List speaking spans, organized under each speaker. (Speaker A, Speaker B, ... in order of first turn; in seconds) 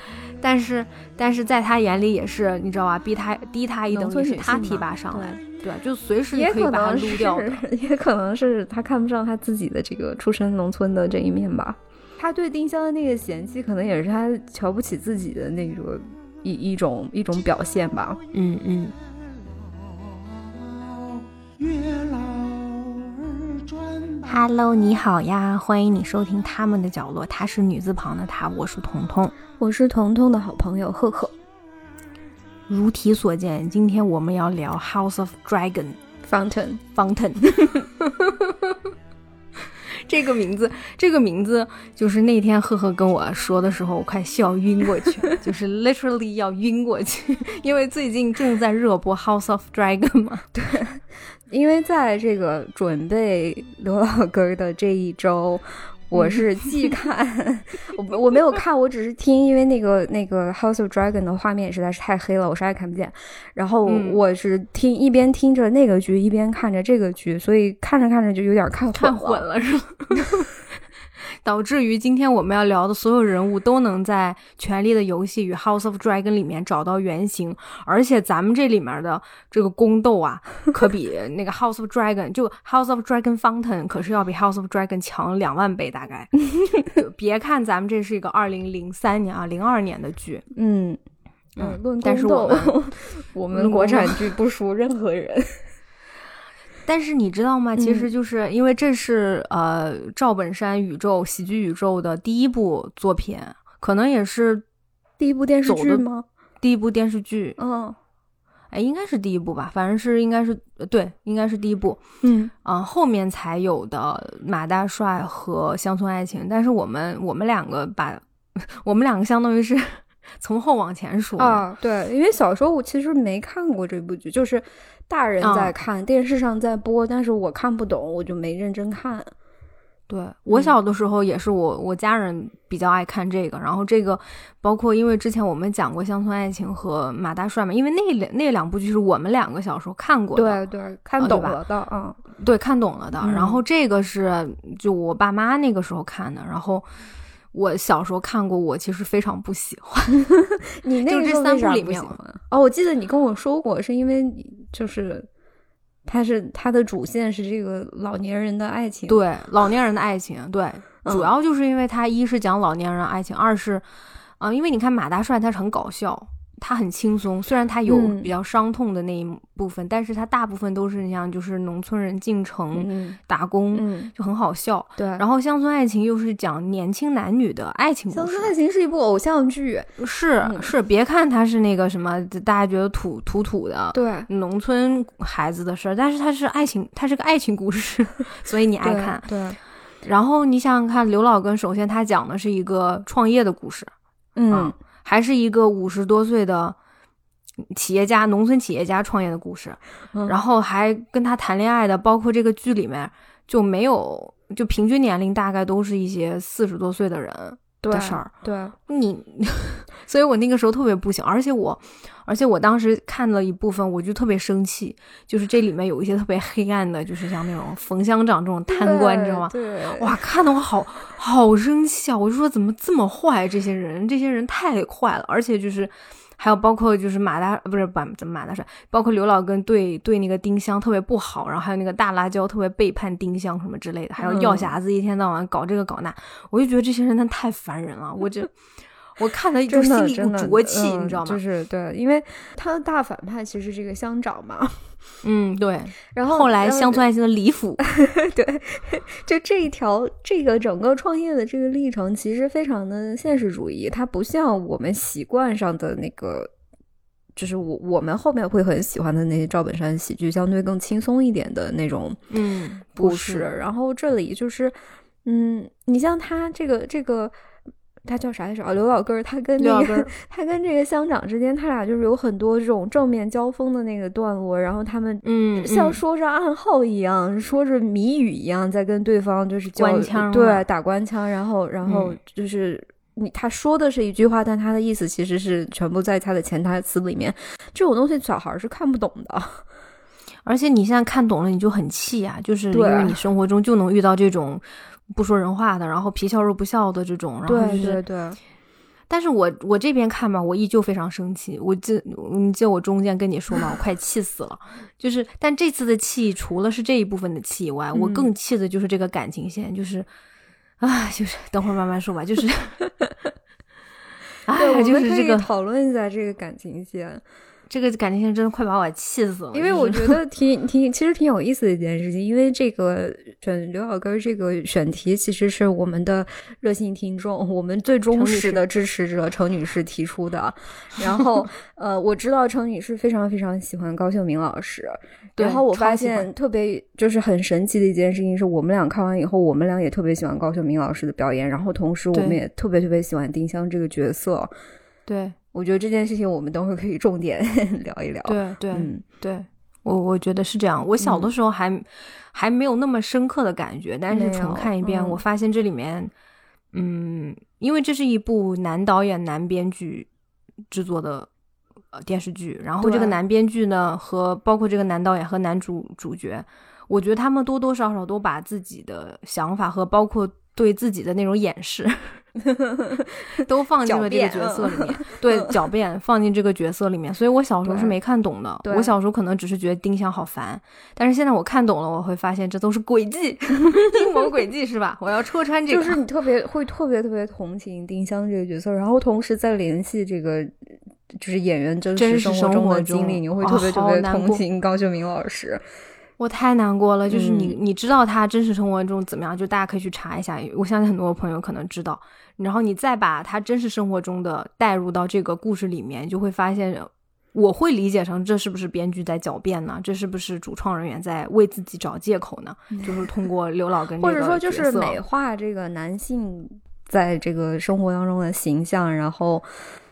Speaker A: 0.4-7.6, 18.3-18.9, 24.2-29.3, 32.7-36.0, 36.9-38.8, 39.9-50.5, 56.1-56.5, 63.9-64.2, 68.9-70.5, 71.4-86.3, 86.8-90.4, 91.6-92.8, 93.5-94.3, 96.8-104.6, 105.6-106.0, 106.6-107.6, 108.7-112.0, 112.6-121.6, 125.4-125.7, 130.1-140.6, 141.2-141.6, 142.4-146.9, 147.5-150.2, 151.1-152.1, 159.1-163.8, 164.4-178.5, 180.0-189.3, 190.0-193.9, 194.5-196.8, 197.7-208.3, 208.9-238.5, 239.2-241.4, 245.2-247.8, 262.3-263.5, 269.6-270.1, 275.2-276.0, 279.8-280.6, 281.8-282.2, 290.4-298.0, 299.1-310.1, 310.8-312.8, 314.4-315.5, 317.7-320.2, 328.1-328.6, 335.4-336.3, 342.1-342.4, 345.1-345.3, 348.2-356.1, 356.7-360.1, 360.7-361.3, 361.9-372.2, 373.3-386.0, 391.9-394.4, 396.2-415.0
Speaker B: 3.9-5.4, 6.3-18.2, 29.6-31.3, 36.2-36.8, 50.5-69.4, 90.5-91.0, 91.5-95.6, 97.8-98.1, 105.2-106.2, 107.6-108.0, 112.2-112.5, 121.4-129.3, 130.5-130.7, 140.3-142.2, 143.2-143.6, 150.2-155.3, 156.0-159.2, 161.0-161.3, 167.9-168.3, 172.7-173.2, 173.7-174.1, 175.0-175.2, 178.1-179.9, 180.4-180.7, 183.9-184.3, 188.8-189.6, 194.3-194.7, 207.8-208.7, 218.7-220.1, 234.2-234.8, 239.7-244.9, 246.1-247.1, 247.8-256.5, 257.4-262.2, 263.0-267.3, 268.0-289.6, 292.7-293.2, 297.5-298.4, 307.9-308.3, 314.6-317.2, 319.5-344.5, 345.5-349.0, 351.0-351.3, 354.1-355.2, 362.8-363.1, 372.4-375.4, 377.6-377.9, 378.6-378.9, 385.7-390.5, 391.1-395.6, 397.1-397.6, 414.0-419.5
Speaker C: 19.5-24.5